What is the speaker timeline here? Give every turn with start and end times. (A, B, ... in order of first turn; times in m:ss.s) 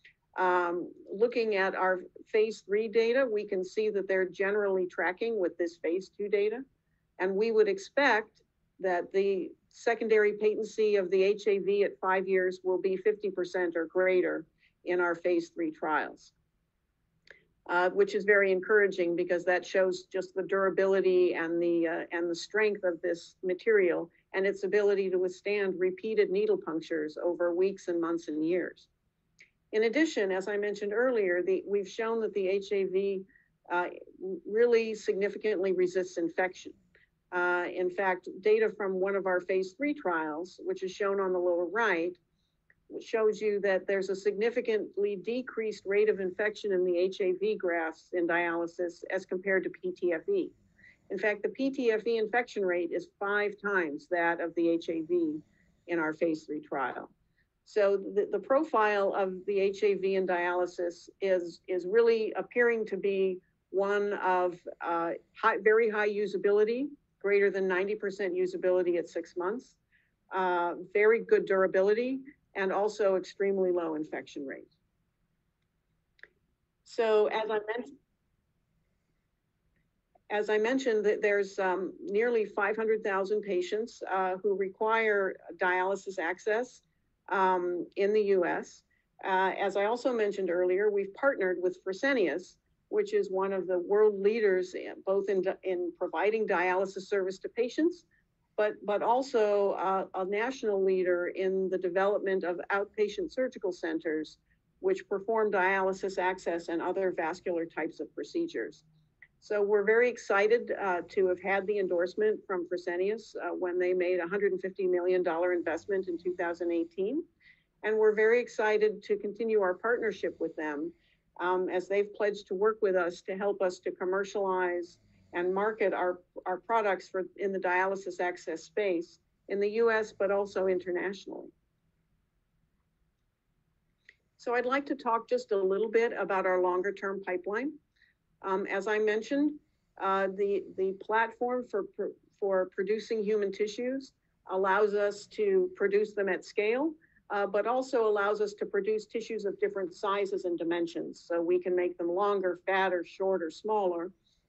0:00.4-0:06.6 A
0:07.2-0:16.3 A
0:17.7-0:28.9 A
0:29.7-0:36.8 A
0:37.3-0:42.2 A
0:42.9-0:50.5 A
0:51.1-0:57.1 A
0:57.6-1:09.8 A
1:10.3-1:14.7 A
1:16.8-1:17.9 A
1:20.3-1:38.0 A
1:38.6-1:48.8 A
1:49.4-1:57.2 A
1:57.8-2:11.5 A
2:14.4-2:17.7 A
2:18.4-2:34.1 A